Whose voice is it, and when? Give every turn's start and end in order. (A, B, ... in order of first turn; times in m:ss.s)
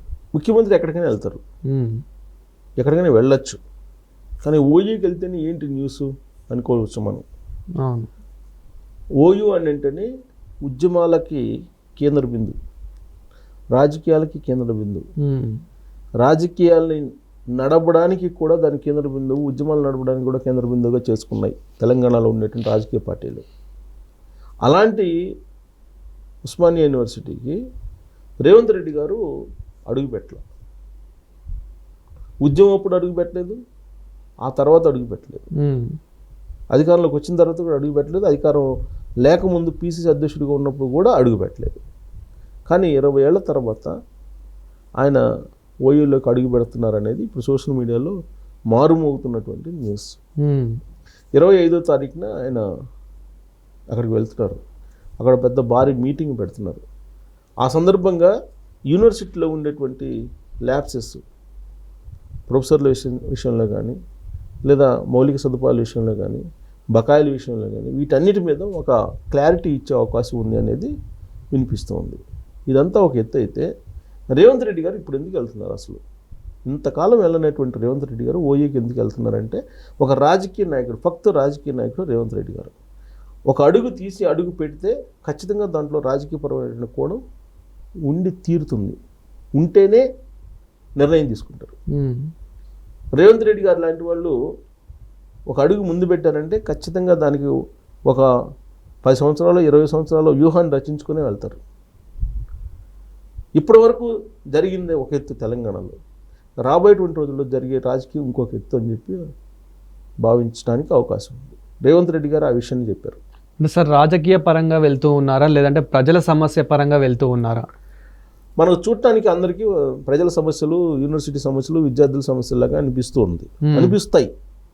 0:00.3-0:01.4 A
0:01.7-0:02.0 B
0:02.8-0:03.6 A
0:04.4-0:07.2 A
0:07.8-0:08.1 B
0:09.2-0:10.1 A
0:10.6-0:11.4 A
0:12.0-0:12.5 A
0:13.7-0:15.0 A
0:15.2-0:15.6 B
0:16.2-0:23.4 A
0:24.6-0:25.1 A
0:26.4-0:27.6 A
0:28.4-0:29.2 A
0:29.9-0:30.4 A
0:32.4-0:33.6 A
0:34.4-0:35.5 A
0:35.6-0:35.9 B
0:36.7-0:38.7 A
0:39.2-0:41.8 A
0:42.7-0:43.9 A
0:45.8-0:48.1 A
0:48.7-0:50.1 A
0:50.4-0:50.8 B
0:51.3-0:52.6 A
0:53.9-0:54.6 A
0:55.2-0:56.8 A
0:57.6-0:58.3 A
0:58.9-1:00.1 A
1:00.6-1:01.2 A
1:02.5-1:04.0 A
1:04.6-1:10.9 A
1:11.5-1:13.7 A
1:14.3-1:16.0 A
1:16.6-1:22.7 A
1:23.5-1:27.2 A
1:28.1-1:29.0 A
1:29.6-1:30.0 A
1:31.0-1:31.7 A
1:31.9-1:32.3 B
1:33.2-1:34.3 A
1:35.5-1:37.5 A
1:39.0-1:41.6 A
1:43.6-1:46.0 A
1:46.6-1:49.2 A
1:50.2-1:53.2 A
1:53.6-1:57.6 B
1:58.6-2:04.3 A
2:03.6-2:03.9 B